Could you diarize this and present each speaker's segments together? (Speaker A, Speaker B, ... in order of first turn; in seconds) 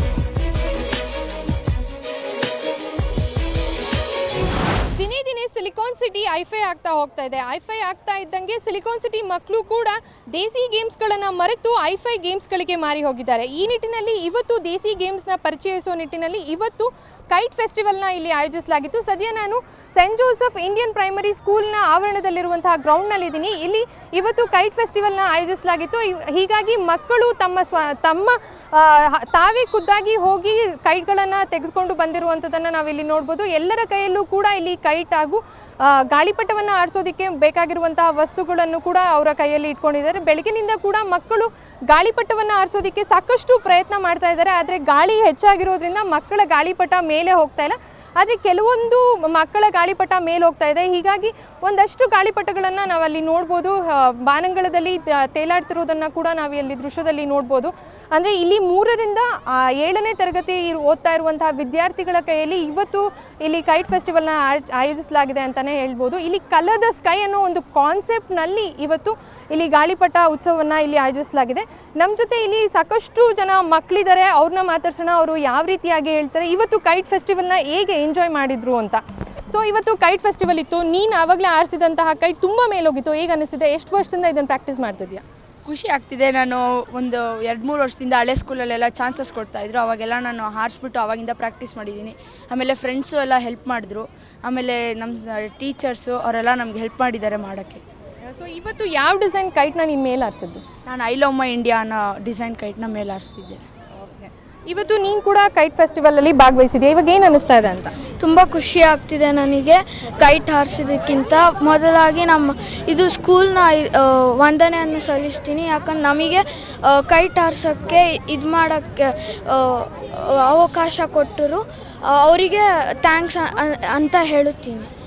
Speaker A: 4.9-85.2, 98.2-100.6, 104.0-107.9
Speaker B: 85.7-97.8, 100.8-103.6
Speaker C: 108.2-124.9